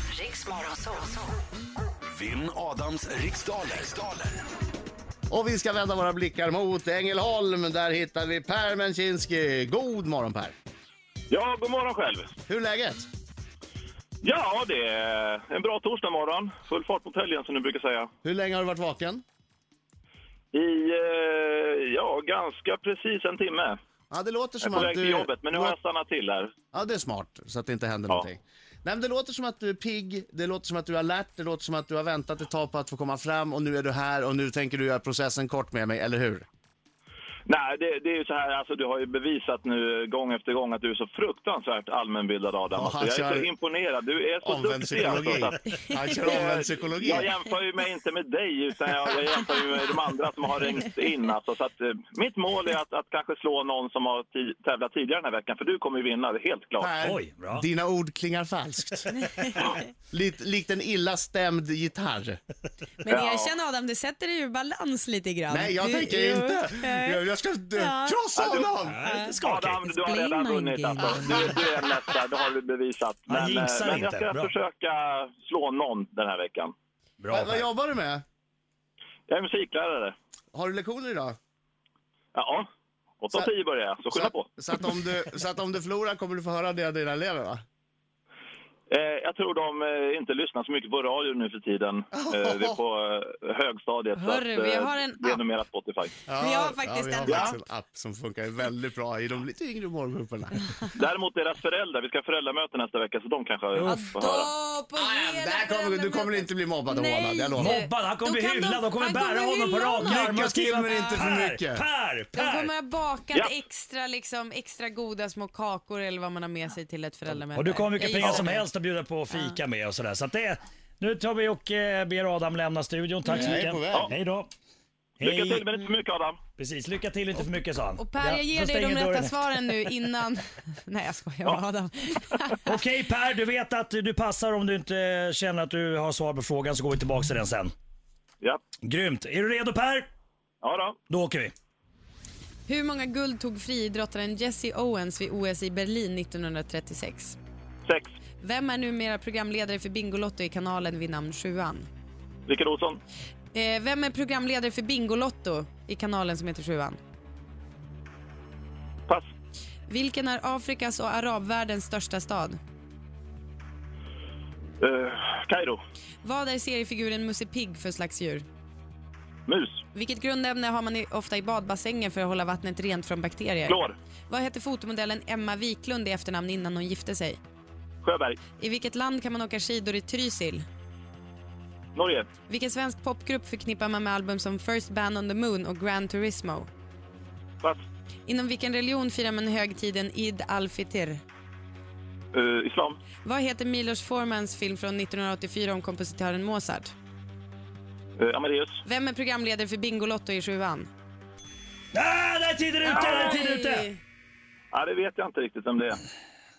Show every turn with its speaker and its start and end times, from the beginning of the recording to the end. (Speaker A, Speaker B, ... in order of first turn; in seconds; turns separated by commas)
Speaker A: 2.1-4.4, Speaker B: 5.3-10.5, Speaker C: 11.3-12.3, Speaker B: 12.5-13.1, Speaker C: 14.2-18.1, Speaker B: 18.2-19.2, Speaker C: 20.5-23.8, Speaker B: 24.1-25.8, Speaker C: 24.6-26.5, Speaker B: 26.7-36.4, Speaker C: 37.5-45.6, Speaker B: 42.7-43.5, Speaker B: 44.4-47.3, Speaker D: 45.6-46.3, Speaker C: 46.1-56.9, Speaker B: 56.8-59.3, Speaker E: 57.0-57.6, Speaker D: 59.2-59.5, Speaker B: 60.0-62.4, Speaker D: 63.0-67.2, Speaker C: 63.1-63.5, Speaker B: 65.5-69.0, Speaker D: 67.7-68.2, Speaker C: 68.3-68.7, Speaker E: 68.9-69.9, Speaker D: 69.0-71.9, Speaker C: 69.4-76.7, Speaker E: 73.3-74.5, Speaker E: 77.2-77.7, Speaker B: 77.3-78.2, Speaker C: 79.3-80.1, Speaker B: 80.5-81.3, Speaker C: 82.3-82.7, Speaker C: 83.2-84.5, Speaker B: 84.1-87.6, Speaker C: 88.9-96.1, Speaker B: 92.1-92.8, Speaker D: 94.2-95.4, Speaker B: 96.3-100.7, Speaker D: 96.4-97.6, Speaker C: 97.2-97.5, Speaker C: 101.0-104.5, Speaker E: 103.8-104.0, Speaker D: 103.8-111.2, Speaker B: 104.9-107.8, Speaker E: 107.5-112.7, Speaker B: 109.8-111.8, Speaker D: 112.3-118.7, Speaker E: 117.5-124.5, Speaker C: 118.2-118.4, Speaker D: 119.3-119.6, Speaker B: 123.3-124.1, Speaker E: 125.2-125.7, Speaker C: 125.2-126.4, Speaker E: 126.6-129.3, Speaker D: 127.9-132.8, Speaker E: 132.7-137.7, Speaker E: 138.8-140.1, Speaker C: 140.6-141.0, Speaker E: 141.1-141.5, Speaker D: 142.7-147.4, Speaker D: 148.4-151.9, Speaker C: 152.5-153.0, Speaker D: 153.5-157.0, Speaker D: 159.9-162.6, Speaker C: 164.8-165.8, Speaker D: 166.2-168.4, Speaker C: 169.5-169.8, Speaker D: 169.9-177.4, Speaker C: 173.7-173.9, Speaker C: 178.0-178.4, Speaker D: 178.6-180.6, Speaker C: 181.9-182.3, Speaker D: 182.5-186.7, Speaker D: 188.2-191.2, Speaker C: 192.3-193.0, Speaker D: 193.2-196.9, Speaker C: 198.2-198.8, Speaker D: 198.8-200.9, Speaker E: 201.9-203.9, Speaker C: 202.8-203.4, Speaker D: 202.9-204.0, Speaker C: 204.7-206.0